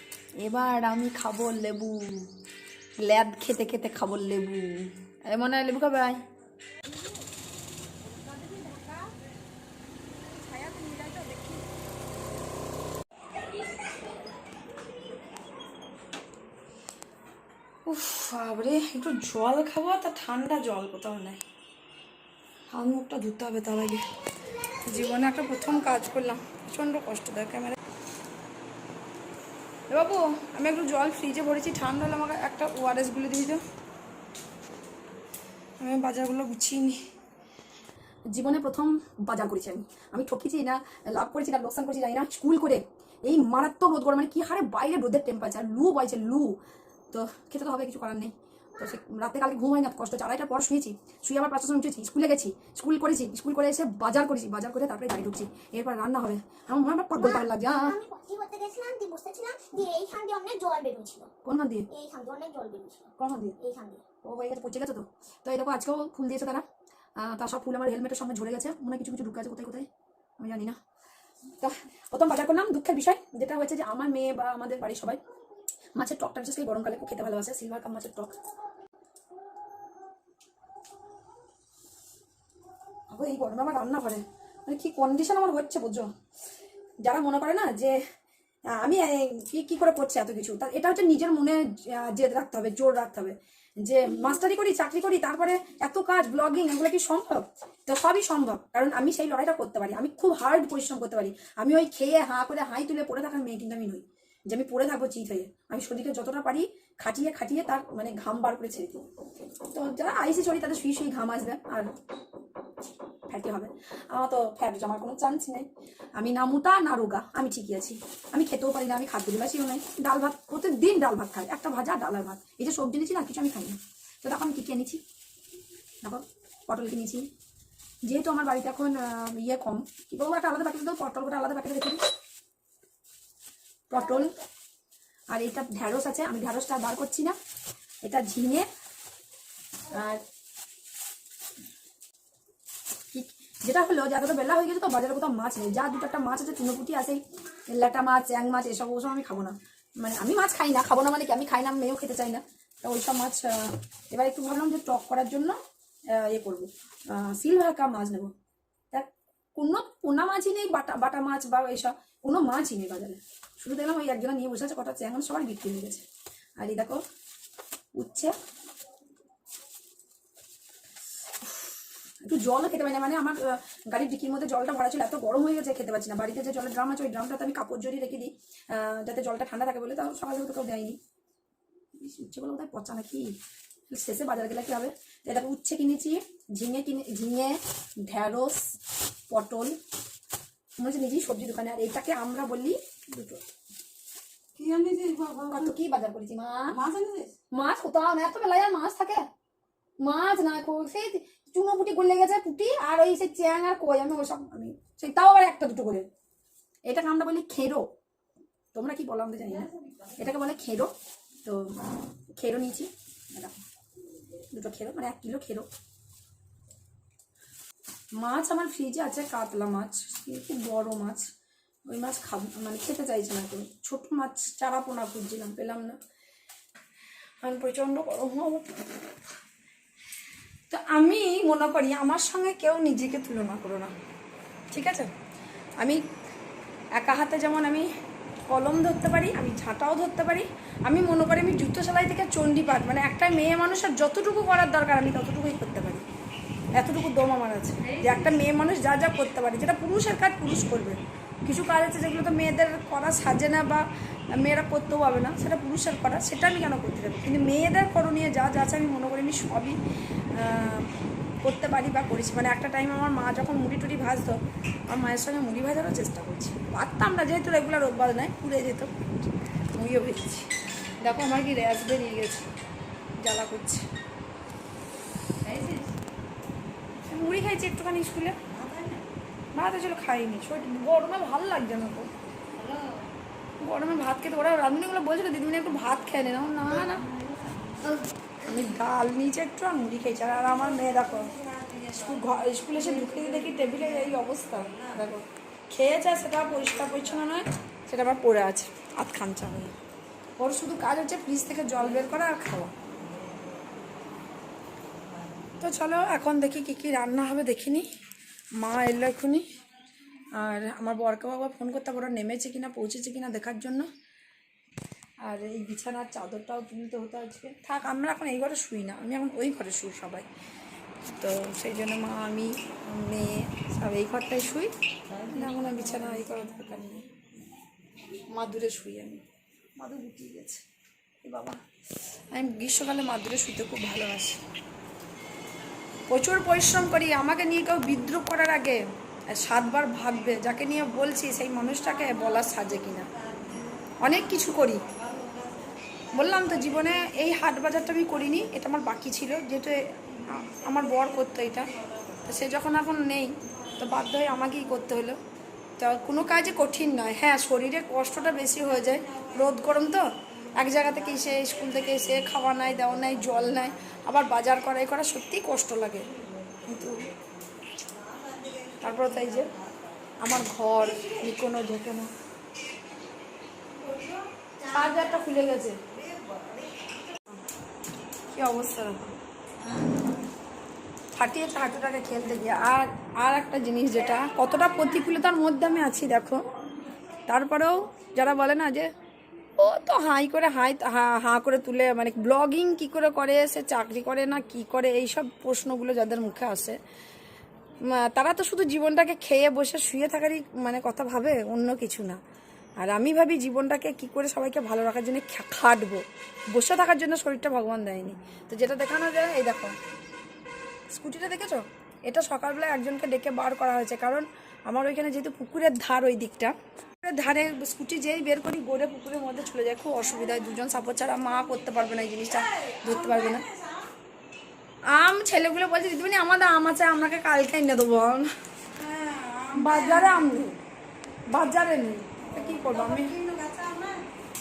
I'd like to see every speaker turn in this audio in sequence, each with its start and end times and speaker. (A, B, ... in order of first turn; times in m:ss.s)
0:00.4-0:02.3 A
0:03.0-0:06.2 A
0:08.2-0:09.0 A
0:08.3-0:08.9 B
0:10.3-0:11.6 A
0:17.8-0:21.4 A
0:22.7-0:24.0 A
0:24.4-0:26.2 C
0:24.8-0:27.8 A
0:29.9-0:33.6 A
0:35.8-0:37.0 A
0:38.3-0:46.6 A
0:47.1-0:58.0 A
0:57.1-1:01.3 C
1:01.4-1:01.9 A
1:01.9-1:04.0 C
1:03.2-1:03.6 A
1:04.2-1:06.6 A
1:07.2-1:09.9 A
1:10.4-1:10.8 A
1:11.6-1:15.2 A
1:15.9-1:18.4 A
1:23.1-1:26.1 A
1:27.0-1:28.0 A
1:28.7-1:49.0 A
1:49.7-1:51.9 A
1:53.3-2:05.0 A
2:06.0-2:07.3 A
2:08.0-2:12.0 A
2:13.9-2:14.4 A
2:14.0-2:14.4 C
2:15.3-2:17.4 A
2:18.0-2:18.7 A
2:19.9-2:20.2 A
2:23.1-2:27.2 A
2:27.7-2:35.6 A
2:36.1-2:38.3 A
2:38.9-2:46.0 A
2:46.6-2:47.0 A
2:47.9-2:48.3 A
2:51.4-2:51.7 A
2:52.2-3:01.0 A
3:02.0-3:03.3 A
3:03.9-3:08.8 A
3:09.3-3:09.8 A
3:10.8-3:13.4 A
3:14.6-3:15.7 B
3:15.5-3:16.8 A
3:16.7-3:17.3 B
3:17.5-3:19.2 A
3:20.0-3:26.1 A
3:26.8-3:27.9 A
3:28.7-3:29.7 A
3:29.6-3:30.1 B
3:30.2-3:30.9 A
3:31.4-3:31.7 A
3:32.4-3:33.6 A
3:34.5-3:35.7 A
3:38.2-3:41.2 A
3:41.9-3:46.0 A
3:47.4-3:48.6 A
3:50.7-3:53.9 A
3:54.7-3:55.1 A
3:57.0-3:57.9 A
3:58.5-4:06.0 A
4:06.7-4:19.8 A
4:07.8-4:08.4 B
4:20.3-4:24.4 A
4:24.9-4:29.0 A
4:29.7-4:30.5 A
4:31.0-4:32.4 A
4:33.2-4:33.8 A
4:35.4-4:35.9 B
4:37.1-4:38.4 A
4:38.5-4:39.0 B
4:39.5-4:42.1 A
4:42.5-4:43.1 B
4:43.6-4:47.0 A
4:46.8-4:48.0 B
4:48.4-4:51.3 A
4:50.5-4:55.0 B
4:51.9-4:59.7 A
4:56.4-4:57.1 B
5:00.4-5:02.7 A
5:05.1-5:05.5 B
5:05.6-5:07.8 A
5:08.6-5:09.4 A
5:10.3-5:13.9 A
5:15.2-5:20.2 A
5:21.2-5:27.1 A
5:25.1-5:26.5 B
5:28.3-5:29.2 A
5:29.8-5:30.6 A
5:31.2-5:31.6 A
5:32.3-5:34.4 A
5:36.1-5:43.1 A
5:42.0-5:47.2 B
5:44.0-5:44.8 A
5:46.1-5:51.7 A
5:51.7-5:52.3 B
5:52.2-5:55.2 A
5:55.8-6:06.1 A
5:58.3-5:59.5 B
6:00.4-6:03.8 B
6:06.3-6:07.2 B
6:06.7-6:07.1 A
6:07.8-6:10.1 B
6:08.8-6:09.5 A
6:10.2-6:12.1 A
6:10.8-6:11.2 B
6:13.7-6:16.9 B
6:14.7-6:15.8 A
6:18.3-6:19.1 A
6:19.6-6:20.1 B
6:21.1-6:26.5 A
6:27.3-6:28.9 A
6:29.6-6:36.8 A
6:37.8-6:42.2 A
6:42.8-6:49.8 A
6:50.9-7:03.4 A
7:01.7-7:03.9 B
7:04.9-7:08.3 A
7:08.7-7:10.4 B
7:09.5-7:10.6 A
7:11.3-7:13.2 A
7:12.2-7:14.0 B